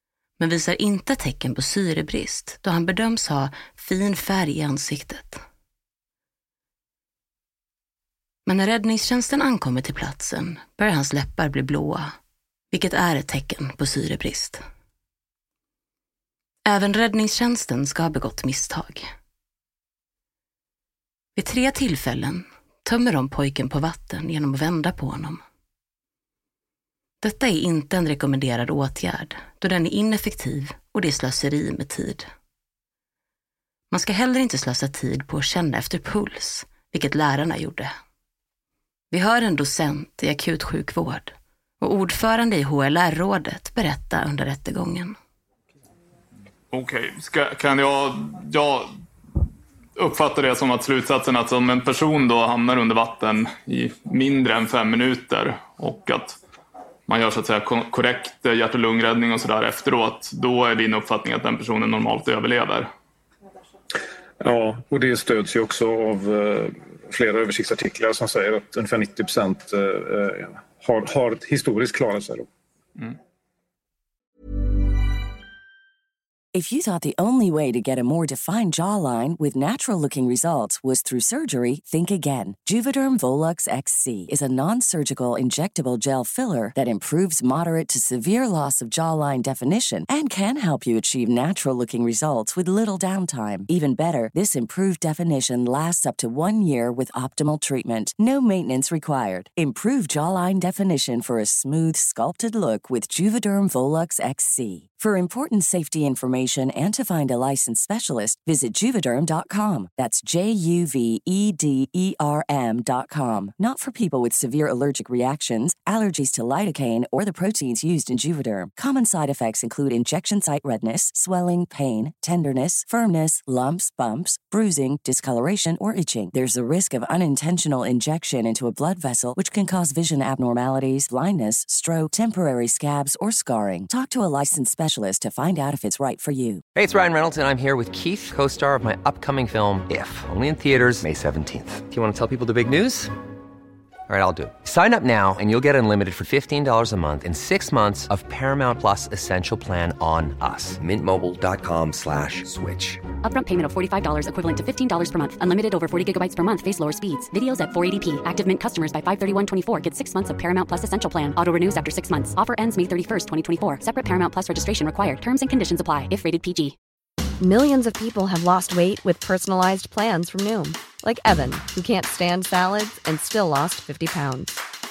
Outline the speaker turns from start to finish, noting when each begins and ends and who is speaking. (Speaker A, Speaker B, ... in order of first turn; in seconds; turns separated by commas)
Speaker A: 0.4-5.4, Speaker A: 8.5-12.1, Speaker A: 12.7-14.6, Speaker A: 16.7-19.1, Speaker A: 21.4-25.4, Speaker A: 27.2-32.3, Speaker A: 33.9-37.9, Speaker A: 39.1-45.2, Speaker B: 46.7-48.9, Speaker B: 50.0-56.4, Speaker B: 57.1-62.9, Speaker C: 64.4-72.5, Speaker D: 76.5-136.6, Speaker E: 136.8-143.1, Speaker E: 144.1-153.1, Speaker F: 153.2-166.8, Speaker G: 167.4-174.6